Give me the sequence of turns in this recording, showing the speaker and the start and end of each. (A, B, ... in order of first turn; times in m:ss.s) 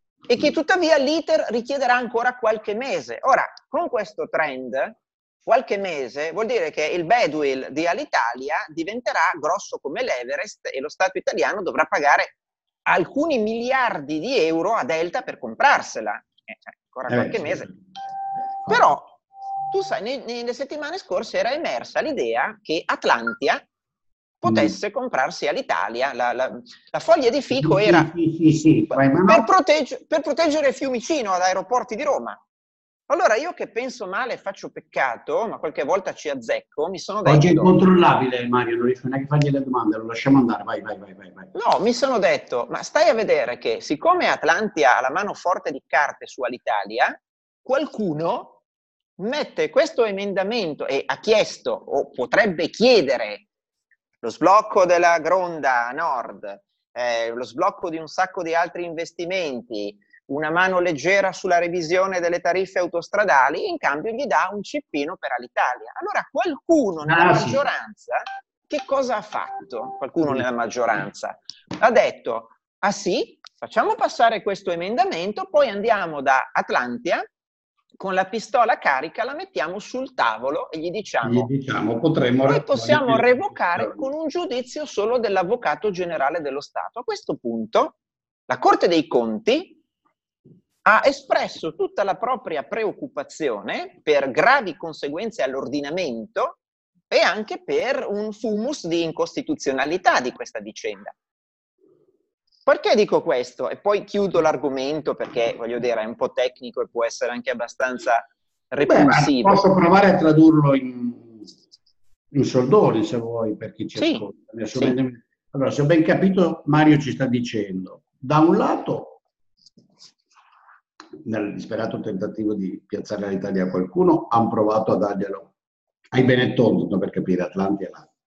0:00.3-0:12.4 A
0:12.9-0:17.7 A
0:17.1-0:17.8 B
0:18.6-0:19.0 B
0:18.7-0:19.1 A
0:19.7-0:23.7 A
0:24.4-0:28.1 A
0:24.4-0:24.8 B
0:27.5-0:29.5 B
0:29.3-0:32.4 A
0:33.1-0:37.7 A
0:37.2-0:41.5 B
0:41.5-0:48.6 A
0:49.2-0:53.5 A
0:54.2-1:17.2 A
1:07.0-1:07.7 B
1:18.0-1:21.5 A
1:21.2-1:24.1 B
1:22.5-1:28.0 A
1:28.5-1:29.8 A
1:30.8-1:36.6 A
1:37.1-1:41.2 A
1:42.7-1:49.6 A
1:48.8-1:51.5 B
1:52.3-1:59.2 B
1:54.0-1:55.0 A
2:01.2-2:05.5 B
2:06.1-2:08.1 B